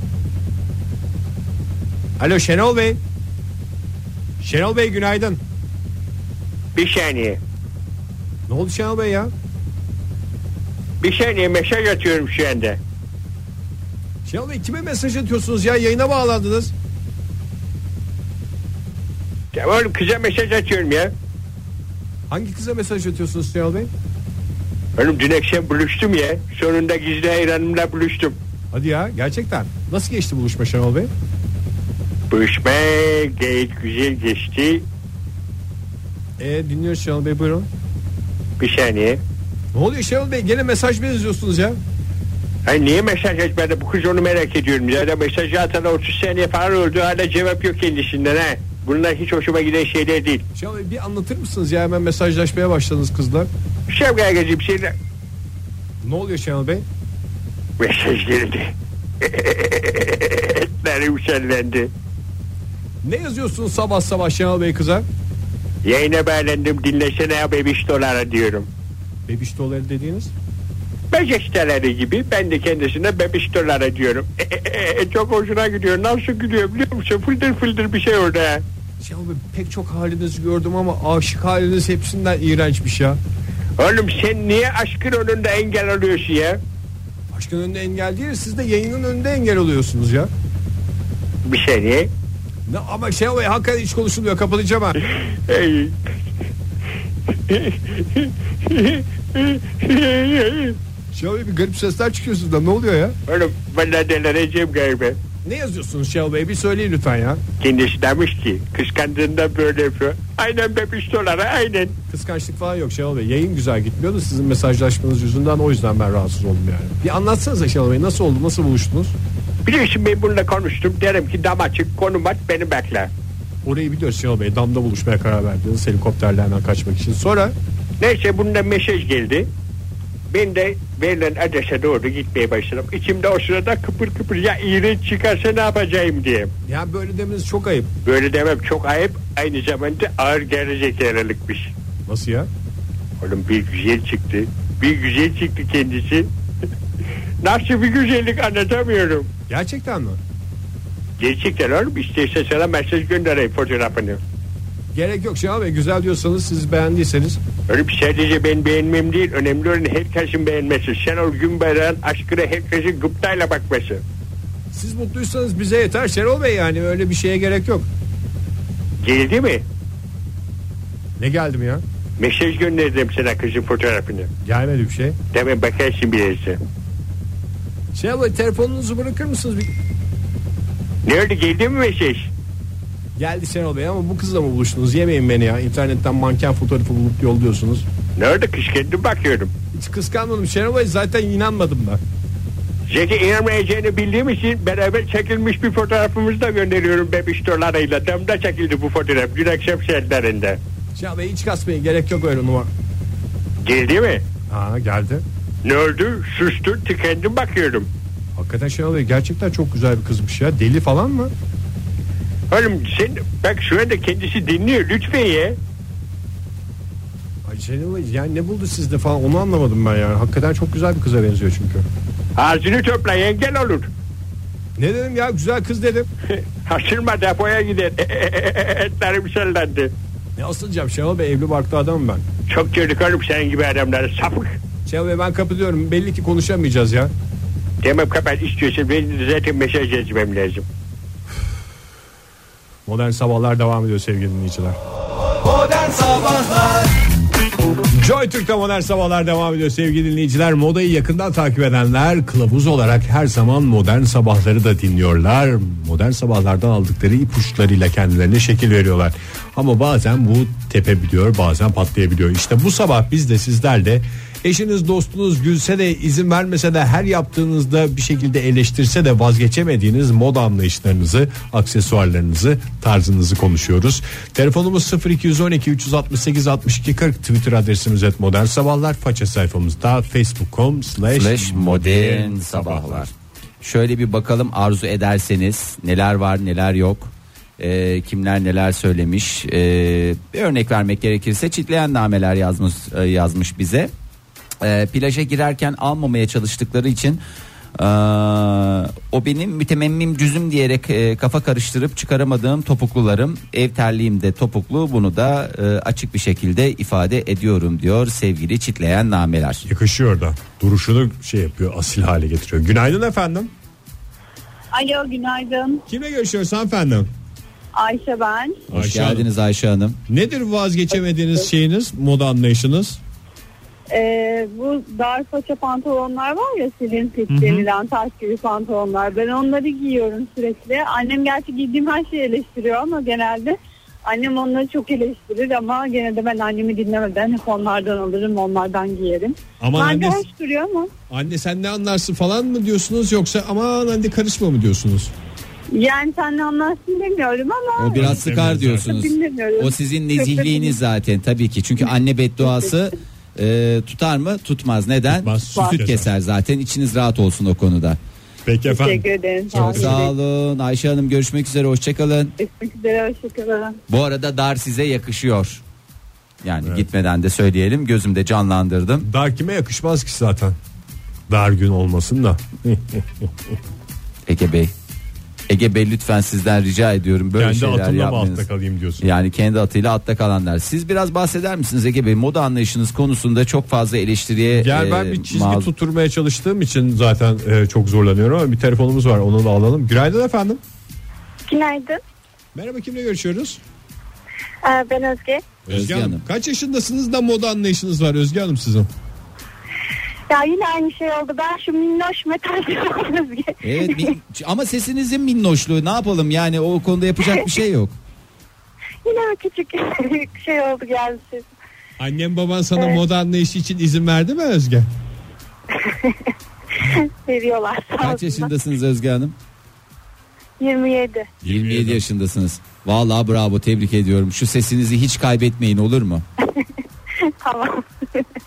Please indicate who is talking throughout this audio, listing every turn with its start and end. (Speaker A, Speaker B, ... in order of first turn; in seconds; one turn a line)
Speaker A: 2.2-3.0
Speaker A: 4.4-5.4
Speaker B: 6.7-7.4
Speaker A: 8.5-9.3
Speaker B: 11.0-12.8
Speaker A: 14.2-16.7
Speaker B: 19.5-21.1
Speaker A: 22.3-23.9
Speaker B: 25.0-28.4
Speaker A: 28.7-31.1
Speaker B: 32.3-34.8
Speaker A: 36.4-37.7
Speaker B: 38.6-39.2
Speaker A: 39.7-41.8
Speaker B: 42.6-50.4
Speaker A: 50.5-53.5
Speaker B: 53.9-54.9
Speaker A: 56.0-56.8
Speaker B: 57.8-61.9
Speaker A: 63.0-65.0
Speaker B: 65.8-68.7
Speaker A: 69.3-70.3
Speaker B: 71.1-78.6
Speaker A: 79.0-83.2
Speaker B: 83.8-86.6
Speaker A: 87.3-90.3
Speaker B: 91.4-92.1
Speaker A: 92.7-95.0
Speaker B: 95.2-96.1
Speaker B: 97.5-100.8
Speaker A: 101.1-103.1
Speaker B: 103.3-105.2
Speaker A: 105.4-107.4
Speaker B: 107.6-111.9
Speaker A: 112.1-119.1
Speaker B: 119.7-123.1
Speaker A: 123.6-127.5
Speaker B: 128.0-129.5
Speaker B: 130.3-136.5
Speaker A: 136.7-137.9
Speaker B: 138.0-141.7
Speaker A: 142.1-142.5
Speaker B: 143.2-146.3
Speaker B: 147.4-149.3
Speaker A: 149.5-150.2
Speaker B: 151.2-154.2
Speaker A: 154.9-157.4
Speaker B: 157.7-164.0
Speaker A: 164.7-167.9
Speaker B: 169.0-169.6
Speaker A: 171.2-171.8
Speaker B: 172.2-174.3
Speaker A: 174.4-175.2
Speaker B: 175.3-176.6
Speaker A: 177.9-179.7
Speaker B: 181.0-182.3
Speaker A: 183.2-187.9
Speaker B: 188.2-189.5
Speaker A: 189.7-192.0
Speaker B: 192.9-200.6
Speaker A: 200.9-202.7
Speaker B: 203.6-204.2
Speaker A: 204.5-205.2
Speaker B: 205.6-207.9
Speaker A: 208.4-211.3
Speaker B: 212.5-215.6
Speaker A: 217.4-221.8
Speaker B: 222.4-223.9
Speaker A: 224.8-226.1
Speaker B: 226.3-229.9
Speaker A: 230.4-232.2
Speaker B: 232.5-234.6
Speaker A: 234.8-237.1
Speaker B: 237.8-240.7
Speaker A: 242.8-244.8
Speaker C: 245.5-246.8
Speaker A: 247.9-283.1
Speaker C: 281.0-293.9
Speaker C: 294.6-297.2
Speaker C: 297.8-309.6
Speaker A: 309.6-313.5
Speaker D: 314.7-315.8
Speaker A: 315.9-317.1
Speaker D: 317.7-318.6
Speaker A: 318.7-319.3
Speaker C: 318.7-320.0
Speaker A: 320.1-323.0
Speaker D: 323.9-340.9
Speaker A: 327.3-327.7
Speaker A: 339.6-340.2
Speaker A: 341.1-345.1
Speaker D: 345.7-350.8
Speaker C: 347.8-358.0
Speaker A: 348.0-348.9
Speaker D: 352.4-352.7
Speaker A: 355.1-356.1
Speaker A: 358.4-360.1
Speaker D: 358.6-360.1
Speaker C: 359.5-362.3
Speaker D: 362.4-363.8
Speaker C: 363.9-365.6
Speaker C: 366.4-369.1
Speaker A: 369.0-370.6
Speaker A: 371.3-373.5
Speaker C: 374.3-374.7
Speaker C: 375.5-378.4
Speaker A: 377.4-379.1
Speaker C: 379.0-385.7
Speaker A: 384.5-390.6
Speaker E: 391.5-392.0
Speaker A: 392.5-393.6
Speaker E: 394.6-395.4
Speaker A: 395.7-398.9
Speaker C: 395.7-396.2
Speaker E: 400.3-404.1
Speaker C: 403.6-407.9
Speaker E: 409.0-411.5
Speaker A: 412.0-414.9
Speaker E: 415.7-418.5
Speaker C: 418.0-419.3
Speaker E: 420.6-421.3
Speaker C: 421.4-426.2
Speaker A: 421.4-422.0
Speaker E: 427.2-428.3